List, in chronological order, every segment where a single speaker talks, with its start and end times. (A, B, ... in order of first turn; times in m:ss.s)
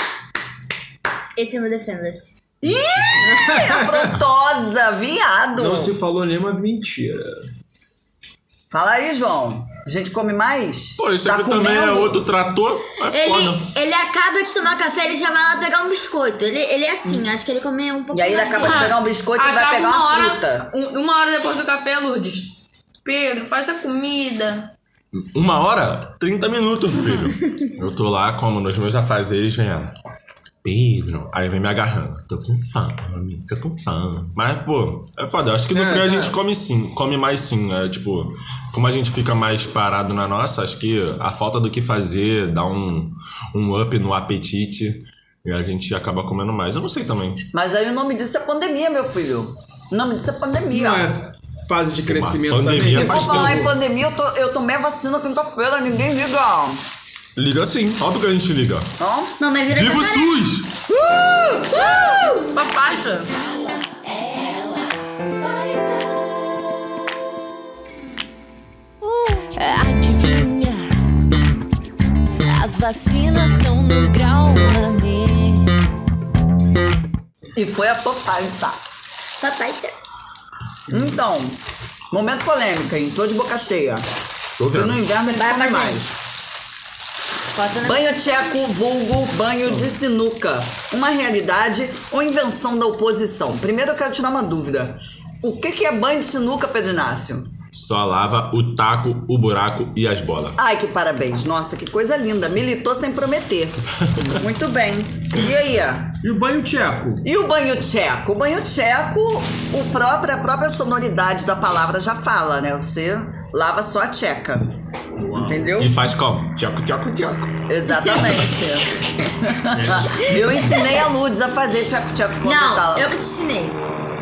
0:01.4-0:02.4 A
0:02.6-0:05.9 B
0:03.5-0:04.0 C
0:05.5-0:07.4 C
0:08.7-0:12.2 B
0:11.0-0:13.7 D
0:13.1-0:18.9 A
0:18.1-0:20.7 B
0:18.6-0:22.5 E
0:23.0-0:24.7 E
0:25.1-0:29.9 D
0:30.6-0:47.4 D
0:35.7-0:36.3 C
0:47.5-0:51.1 B
0:50.7-0:53.7 C
0:52.1-0:53.7 D
0:52.9-0:56.8 B
0:57.4-0:58.9 D
0:59.0-0:59.4 B
0:59.4-1:00.5 A
0:59.7-1:00.7 D
1:00.9-1:01.9 B
1:01.9-1:02.5 A
1:02.5-1:03.3 E
1:04.1-1:04.8 F
1:05.4-1:06.2 F
1:09.0-1:10.8 F
1:12.4-1:15.7 F
1:17.5-1:18.8 B
1:19.4-1:20.0 A
1:20.9-1:21.6 B
1:22.1-1:24.0 B
1:24.6-1:25.0 D
1:24.7-1:26.1 B
1:25.2-1:26.1 A
1:27.5-1:28.1 A
1:27.8-1:37.5 B
1:37.7-1:40.6 D
1:40.6-1:46.1 B
1:46.2-1:47.2 C
1:47.2-1:54.7 B
1:55.2-1:55.6 C
1:55.4-1:56.0 B
1:55.8-1:57.6 D
1:57.7-2:03.1 B
1:59.8-2:00.6 C
2:02.4-2:03.8 A